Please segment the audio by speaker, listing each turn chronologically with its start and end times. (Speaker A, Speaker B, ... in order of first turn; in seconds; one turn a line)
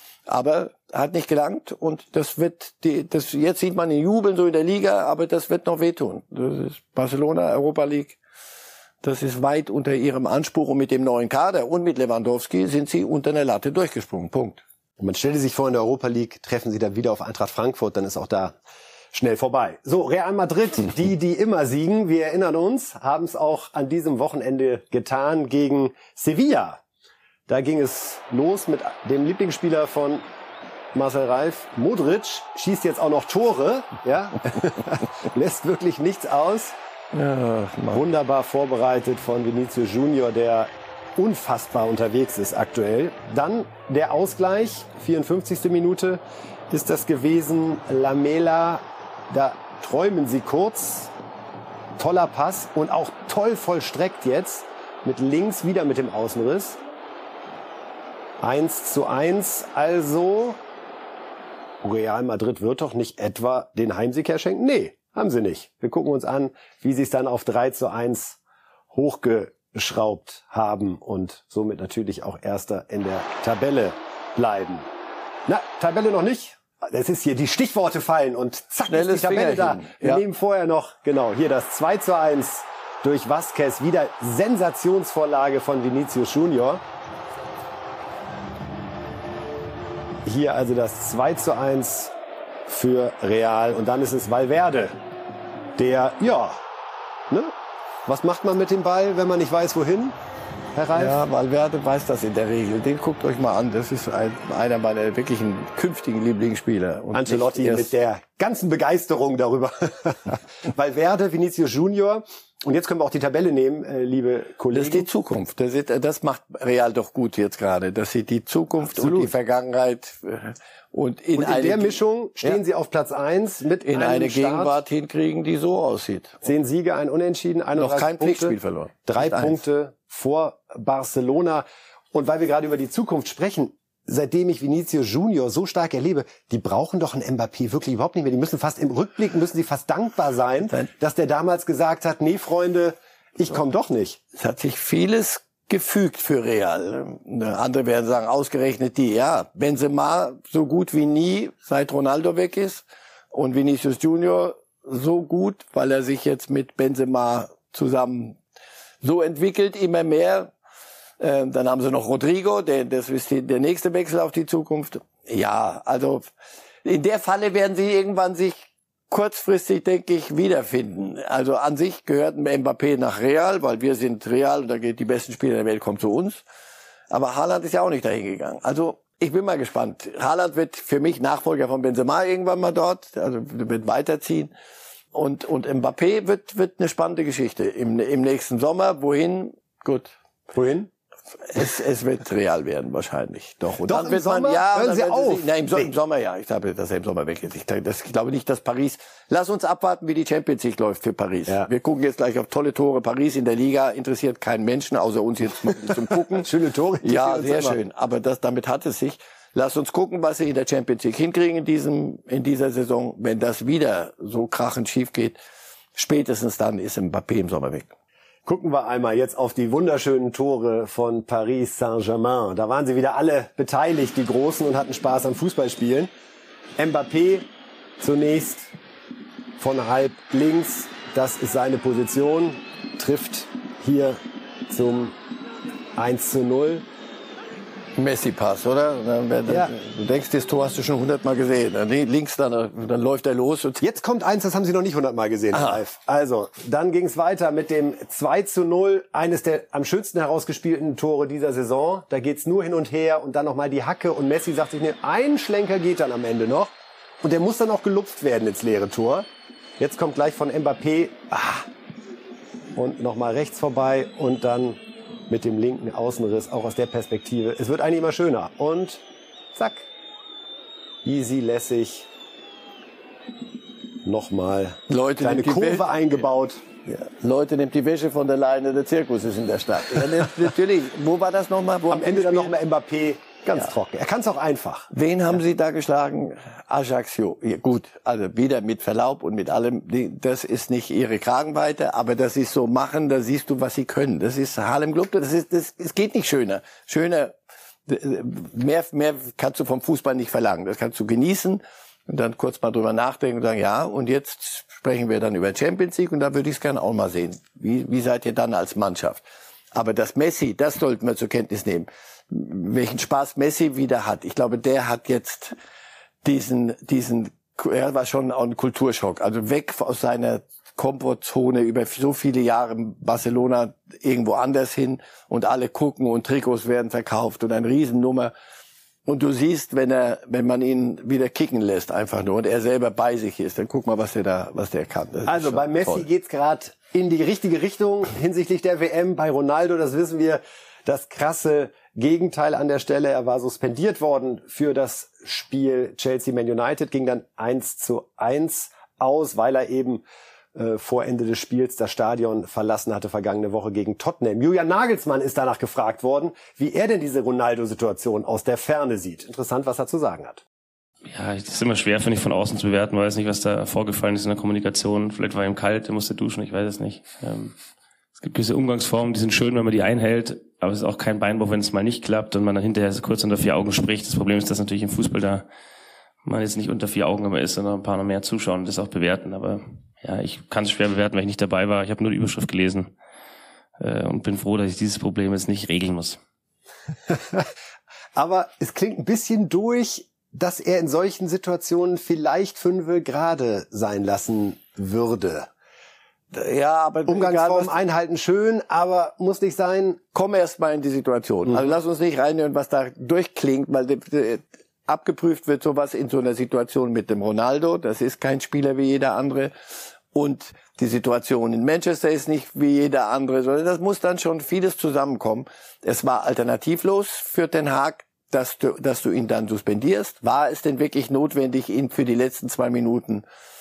Speaker A: 0.3-8.2
Speaker A: 9.0-14.6
Speaker B: 15.0-18.6
Speaker B: 19.1-26.8
Speaker B: 27.5-30.3
Speaker B: 30.9-36.7
Speaker A: 37.1-38.0
Speaker B: 37.9-51.1
Speaker B: 52.0-56.8
Speaker B: 58.4-60.6
Speaker B: 61.8-68.4
Speaker B: 68.9-74.9
Speaker B: 75.5-86.8
Speaker A: 78.9-80.2
Speaker B: 90.2-92.1
Speaker B: 92.7-95.0
Speaker B: 95.8-96.6
Speaker B: 98.0-100.2
Speaker B: 100.7-101.2
Speaker A: 100.9-107.9
Speaker B: 107.1-115.1
Speaker A: 114.7-122.6
Speaker B: 118.8-119.3
Speaker B: 121.3-124.7
Speaker A: 123.8-126.4
Speaker B: 126.4-128.6
Speaker A: 127.8-129.6
Speaker B: 129.1-144.2
Speaker A: 144.3-158.4
Speaker A: 159.0-160.5
Speaker A: 161.2-166.3
Speaker A: 166.8-176.4
Speaker A: 177.1-184.5
Speaker A: 185.1-190.1
Speaker B: 190.5-190.9
Speaker A: 191.5-206.5
Speaker B: 193.8-195.9
Speaker B: 205.8-207.8
Speaker A: 207.0-215.4
Speaker A: 215.9-217.9
Speaker B: 218.4-226.1
Speaker B: 226.8-227.4
Speaker B: 228.0-228.7
Speaker B: 229.6-235.2
Speaker B: 235.9-236.8
Speaker A: 237.9-243.9
Speaker B: 239.4-239.7
Speaker B: 243.8-259.3
Speaker B: 259.8-261.7
Speaker B: 262.7-269.0
Speaker B: 269.5-269.9
Speaker B: 271.0-272.1
Speaker B: 274.0-276.6
Speaker A: 274.9-275.9
Speaker A: 276.9-282.5
Speaker B: 281.9-285.3
Speaker A: 284.9-297.3
Speaker A: 297.9-315.6
Speaker A: 316.2-328.3
Speaker A: 329.1-336.1
Speaker B: 335.2-350.0
Speaker B: 350.5-360.4
Speaker C: 361.1-367.6
Speaker C: 368.2-375.4
Speaker C: 376.2-382.9
Speaker C: 383.8-386.2
Speaker B: 387.1-387.4
Speaker B: 388.1-395.5
Speaker A: 396.3-397.7
Speaker B: 397.1-400.0
Speaker A: 400.1-409.5
Speaker A: 410.1-423.2